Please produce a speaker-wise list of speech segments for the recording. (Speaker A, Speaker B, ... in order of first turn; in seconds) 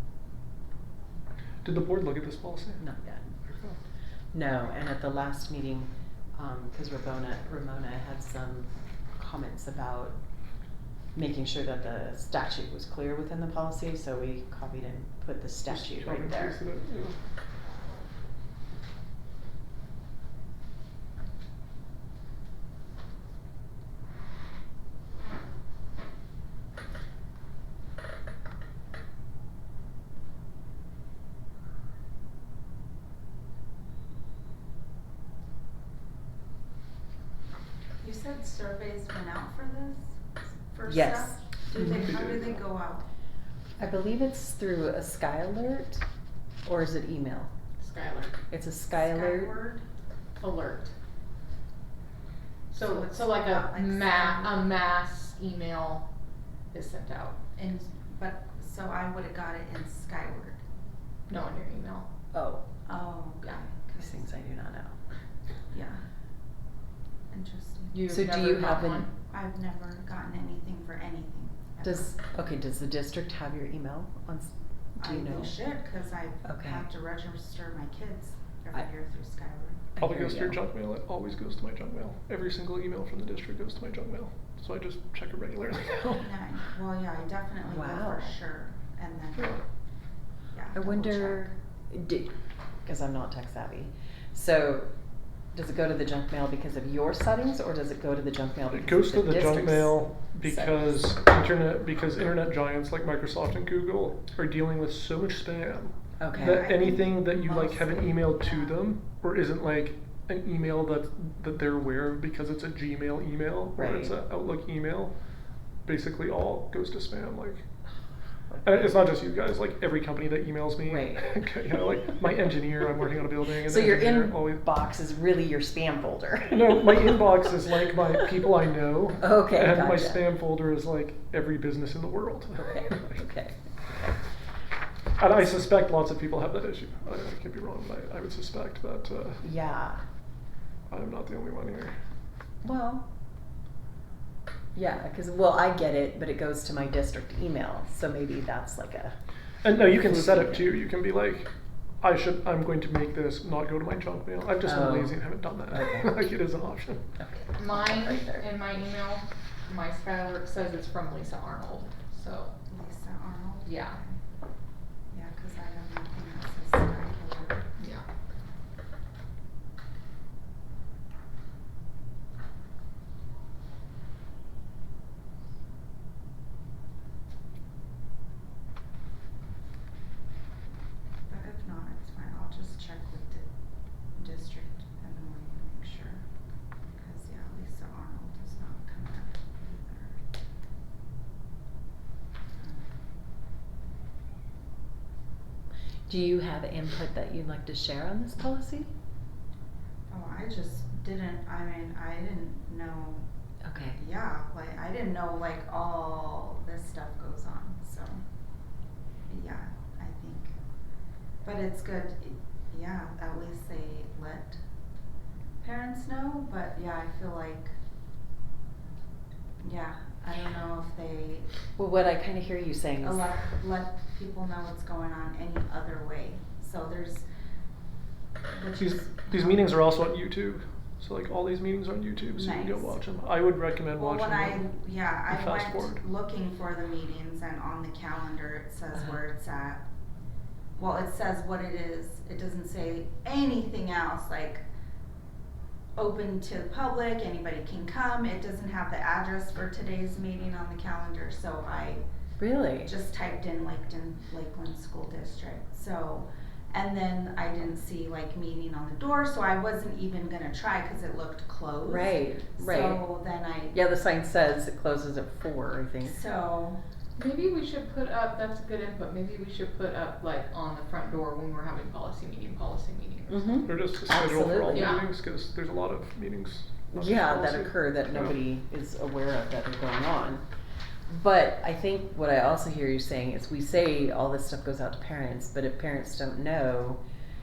Speaker A: 1.6-2.8, 3.4-3.8, 15.7-17.1, 42.0-42.5, 80.0-86.3, 98.7-115.1, 115.8-117.6, 118.6-124.6, 126.5-133.1, 135.2-139.4, 140.9-141.9, 149.6-151.5, 152.0-157.0, 228.8-234.6, 235.3-236.0, 273.6-278.3
Speaker B: 2.8-3.3, 4.3-10.2, 11.1-16.6, 40.9-42.0, 43.8-46.0, 46.6-47.5, 48.5-49.5, 62.3-62.6, 64.0-64.9, 68.1-69.0, 71.8-75.5, 76.4-76.8, 80.0-80.6, 87.7-88.3, 90.7-92.3, 92.8-94.9, 95.5-101.1, 106.2-106.7, 113.8-114.1, 118.5-118.9, 120.8-121.3, 123.6-127.4, 129.2-130.2, 132.6-133.6, 139.4-140.0, 142.6-143.1, 144.7-149.2, 149.7-150.8, 154.6-156.2, 157.2-158.5, 196.1-198.9, 203.6-204.0, 221.8-223.3, 252.4-252.9, 261.9-263.0, 263.7-266.2, 273.3-275.0, 276.9-280.4, 281.1-287.0
Speaker C: 38.0-40.1, 40.7-43.0, 48.9-49.8, 52.8-54.6, 57.5-60.6, 62.9-64.2, 65.7-66.0, 67.3-68.0, 69.3-72.2, 75.0-79.9, 86.2-89.6, 90.5-91.5, 106.3-108.7, 162.7-164.1, 165.1-167.6, 181.3-183.5, 184.2-186.2, 187.0-190.1, 200.1-203.2, 203.9-208.2, 209.3-210.5, 211.4-214.6, 215.6-217.7, 219.6-221.5, 223.0-227.2, 228.5-229.7, 232.3-233.0, 234.0-239.8, 240.8-244.6, 246.0-252.0, 252.8-263.8, 266.0-266.8
Speaker D: 47.8-48.4, 50.4-50.9, 52.7-56.1, 56.7-57.4, 61.3-62.1, 67.9-69.1, 157.6-162.5, 163.7-164.0, 167.8-168.0, 267.2-273.7, 274.7-275.0